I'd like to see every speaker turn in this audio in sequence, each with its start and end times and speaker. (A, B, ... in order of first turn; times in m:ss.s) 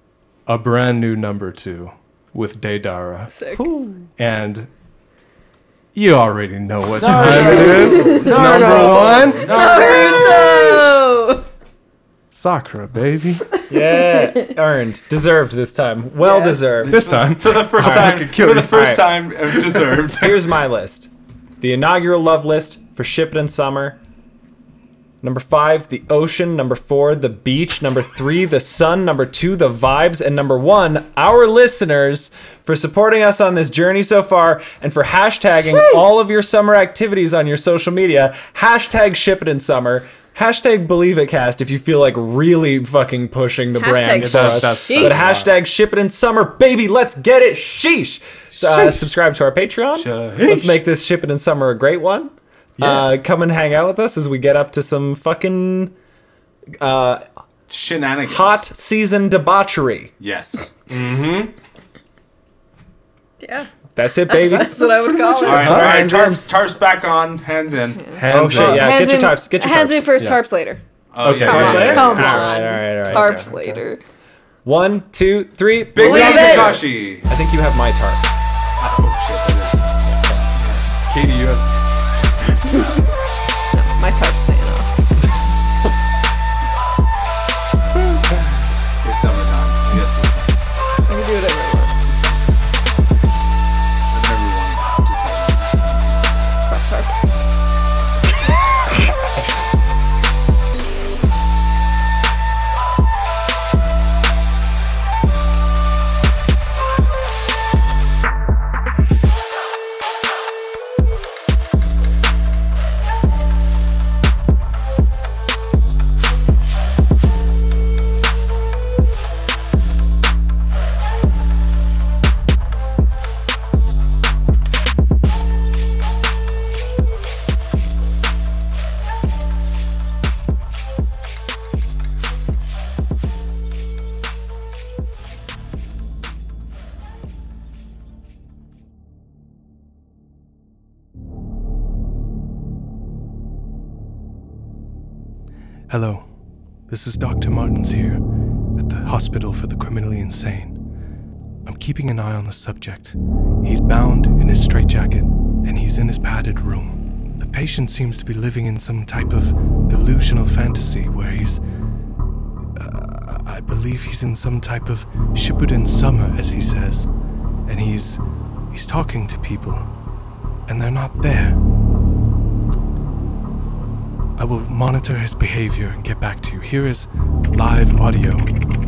0:00.5-0:03.3 A
0:03.3-0:03.6 B
0:03.6-0:04.1 C
0:04.2-0:04.7 A
0:05.9-0:09.8 A
0:06.9-0:11.0 D
0:07.6-0:08.7 B
0:08.2-0:09.2 C
0:09.4-0:11.5 B
0:12.3-0:13.5 A
0:13.6-0:14.5 B
0:13.7-0:17.1 C
0:16.2-0:16.6 B
0:16.7-0:20.5 D
0:16.9-0:19.0 A
0:17.8-0:19.0 C
0:19.7-0:20.0 A
0:20.1-0:21.1 C
0:21.6-0:24.0 C
0:25.2-0:55.9 C
0:35.7-0:36.0 B
0:43.8-0:45.2 B
0:44.2-0:45.5 A
0:48.6-0:49.0 A
0:49.9-0:50.8 D
0:52.8-0:53.0 A
0:56.8-0:57.2 C
0:57.7-0:58.6 D
0:58.2-1:00.1 C
1:00.2-1:00.7 D
1:00.9-1:01.5 A
1:03.4-1:05.8 B
1:03.9-1:06.4 C
1:05.4-1:06.1 A
1:05.4-1:08.5 D
1:08.0-1:10.8 B
1:08.1-1:08.9 A
1:08.3-1:10.1 C
1:11.1-1:12.6 D
1:11.2-1:13.5 A
1:11.3-1:13.8 C
1:11.4-1:14.0 B
1:14.6-1:18.3 C
1:15.9-1:17.3 D
1:16.0-1:16.6 B
1:18.8-1:19.9 D
1:20.0-1:20.6 C
1:20.6-1:20.8 D
1:21.1-1:21.7 A
1:23.7-1:24.9 B
1:29.0-1:30.6 D
1:31.1-1:31.9 B
1:34.1-1:36.3 D
1:36.6-1:37.2 B
2:25.9-2:26.3 A
2:26.9-2:28.2 A
2:28.8-2:30.8 A
2:31.6-2:41.6 A
2:42.8-2:47.1 A
2:47.7-2:48.2 A
2:48.7-2:49.9 A
2:50.7-2:51.6 A
2:54.4-2:58.5 A